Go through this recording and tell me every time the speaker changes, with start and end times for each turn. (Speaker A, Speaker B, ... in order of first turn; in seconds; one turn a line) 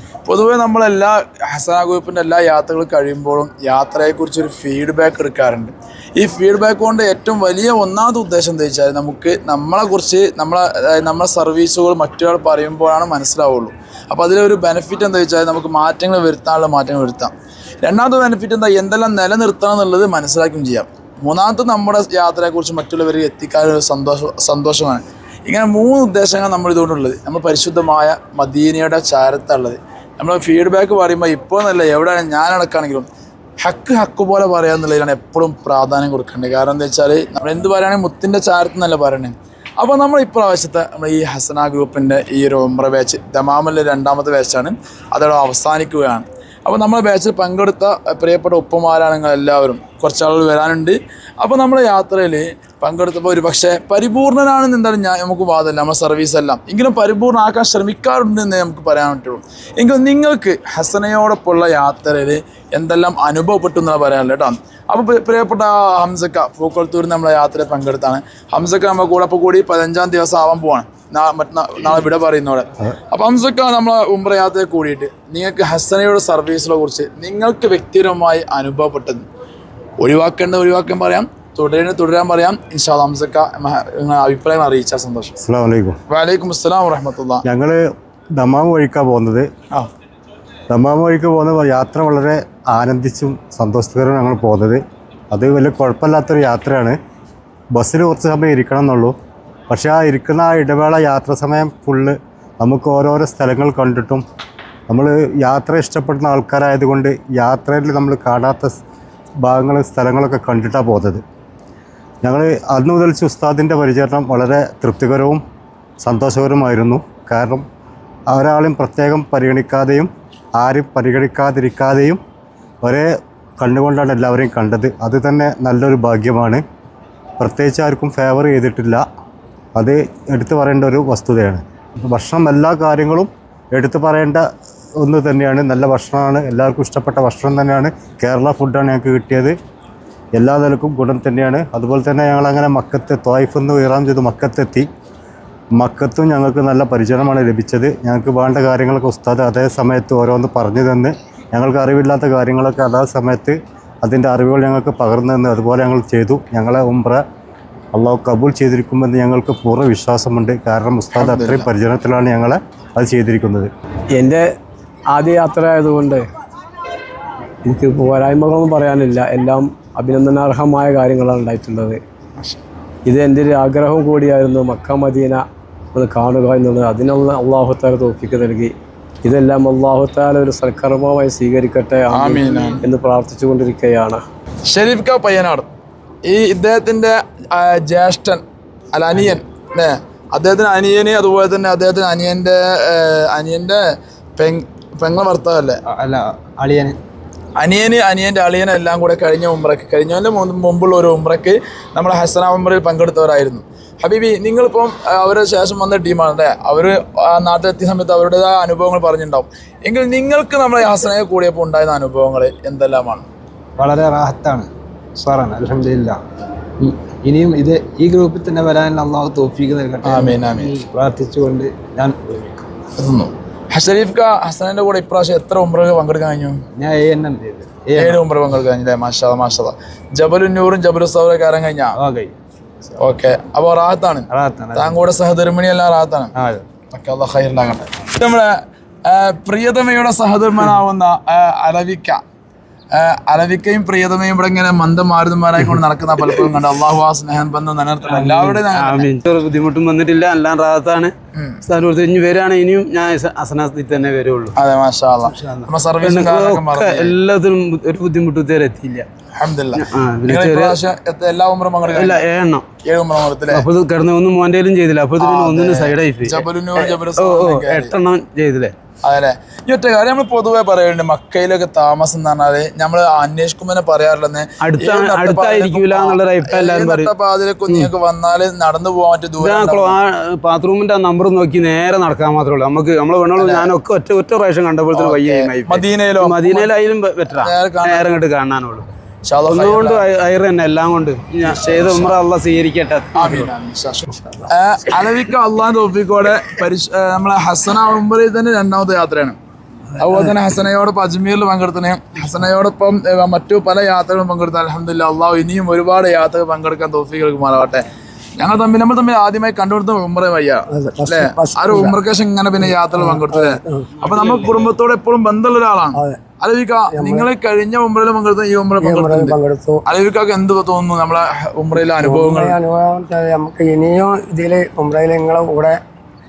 Speaker A: 0.2-17.3
Speaker A: 17.8-33.1
Speaker A: 33.6-79.2
Speaker A: 80.0-85.3
Speaker B: 85.4-86.0
Speaker A: 86.1-87.4
Speaker B: 87.4-87.8
Speaker B: 88.4-89.5
Speaker B: 90.7-94.8
Speaker B: 95.3-97.0
Speaker B: 97.7-99.1
Speaker B: 99.7-104.2
Speaker B: 104.9-108.8
Speaker B: 109.4-111.2
Speaker B: 112.2-115.4
Speaker B: 116.0-117.6
Speaker B: 118.3-122.2
Speaker B: 123.6-126.6
Speaker B: 127.4-129.0
Speaker B: 129.8-134.4
Speaker B: 135.0-139.5
Speaker B: 140.4-144.8
Speaker B: 145.8-157.2
Speaker B: 157.9-163.7
Speaker A: 161.1-161.7
Speaker C: 164.1-164.4
Speaker C: 165.1-166.2
Speaker C: 167.6-172.0
Speaker C: 173.1-178.7
Speaker C: 179.2-184.2
Speaker A: 182.1-182.8
Speaker A: 184.7-185.7
Speaker A: 186.2-188.4
Speaker A: 188.9-193.8
Speaker A: 194.4-195.8
Speaker D: 195.9-197.0
Speaker A: 197.6-213.2
Speaker D: 213.8-216.2
Speaker D: 216.8-222.7
Speaker A: 220.0-220.7
Speaker A: 223.0-226.6
Speaker D: 226.7-228.2
Speaker A: 228.0-232.0
Speaker D: 232.0-232.3
Speaker A: 233.0-236.3
Speaker D: 234.3-235.0
Speaker D: 236.4-236.6
Speaker A: 236.9-242.2
Speaker A: 242.9-249.1
Speaker E: 248.1-254.5
Speaker A: 251.3-251.6
Speaker A: 254.5-257.1
Speaker E: 255.5-259.1
Speaker A: 259.3-262.2
Speaker E: 259.7-260.8
Speaker E: 261.9-262.6
Speaker A: 262.8-263.6
Speaker E: 263.5-268.7
Speaker A: 265.2-267.9
Speaker A: 269.0-280.0
Speaker E: 274.6-277.1
Speaker E: 279.4-288.9
Speaker A: 283.4-283.7
Speaker A: 284.9-286.7
Speaker A: 287.4-288.1
Speaker A: 289.2-290.0
Speaker E: 289.4-293.5
Speaker A: 291.4-292.1
Speaker A: 293.1-299.4
Speaker A: 300.0-307.8
Speaker A: 308.4-322.6
Speaker F: 310.7-311.9
Speaker F: 312.9-313.9
Speaker E: 314.0-314.7
Speaker F: 315.9-316.2
Speaker F: 316.9-317.3
Speaker F: 318.8-319.8
Speaker F: 322.0-325.8